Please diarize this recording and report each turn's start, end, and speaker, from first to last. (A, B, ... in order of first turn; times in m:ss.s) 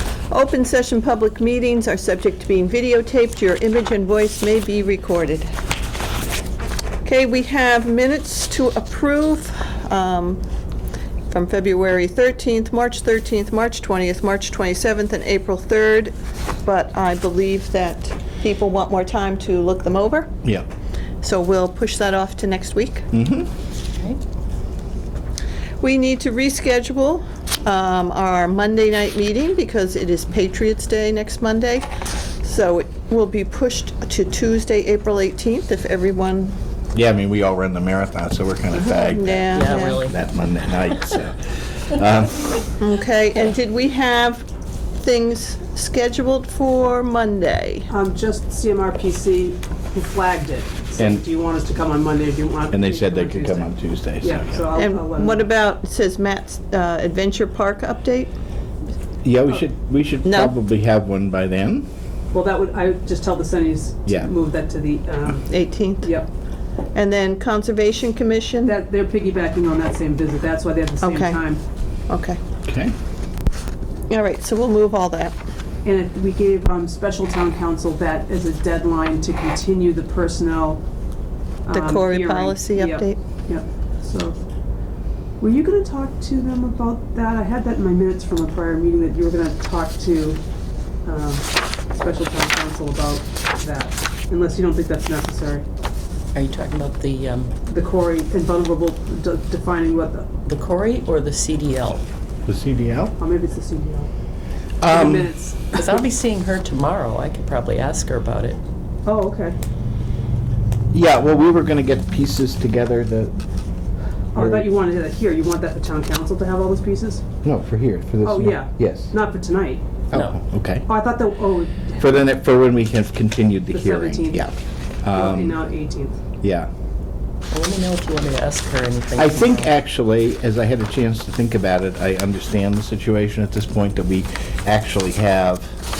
0:00.3-0:05.5 A
0:07.0-0:10.4 A
0:11.3-0:20.3 A
0:21.2-0:23.1 A
0:23.1-0:23.5 B
0:25.8-0:31.9 A
0:32.4-0:36.6 A
0:36.9-0:42.6 B
0:38.8-0:40.0 A
0:39.5-0:40.2 C
0:42.8-0:47.9 A
0:47.9-0:53.7 D
0:51.0-0:51.2 B
0:52.7-0:54.6 B
0:54.2-0:55.5 D
0:54.7-0:58.3 A
0:59.2-1:01.9 B
1:00.2-1:00.5 A
1:02.3-1:05.5 D
1:05.5-1:06.2 A
1:06.0-1:06.3 D
1:06.9-1:08.8 A
1:08.6-1:11.6 D
1:11.0-1:11.4 A
1:12.1-1:12.4 A
1:12.6-1:12.9 B
1:14.1-1:15.3 A
1:15.8-1:20.8 D
1:21.6-1:24.4 D
1:21.7-1:23.2 A
1:25.4-1:30.4 D
1:31.0-1:35.6 D
1:36.3-1:37.5 C
1:37.6-1:40.3 D
1:40.4-1:42.0 C
1:42.4-1:43.2 B
1:43.2-1:44.1 D
1:44.8-1:45.3 B
1:44.8-1:46.0 D
1:45.7-1:48.6 C
1:49.0-1:49.6 D
1:50.9-1:53.4 B
1:54.3-1:57.2 D
1:54.4-1:54.7 B
1:57.4-1:59.1 B
1:58.2-1:59.8 D
2:00.1-2:00.4 C
2:00.1-2:00.9 B
2:00.8-2:02.1 D
2:01.9-2:05.6 B
2:03.7-2:04.5 D
2:05.1-2:06.2 D
2:06.4-2:06.7 B
2:07.5-2:09.7 C
2:09.2-2:15.7 B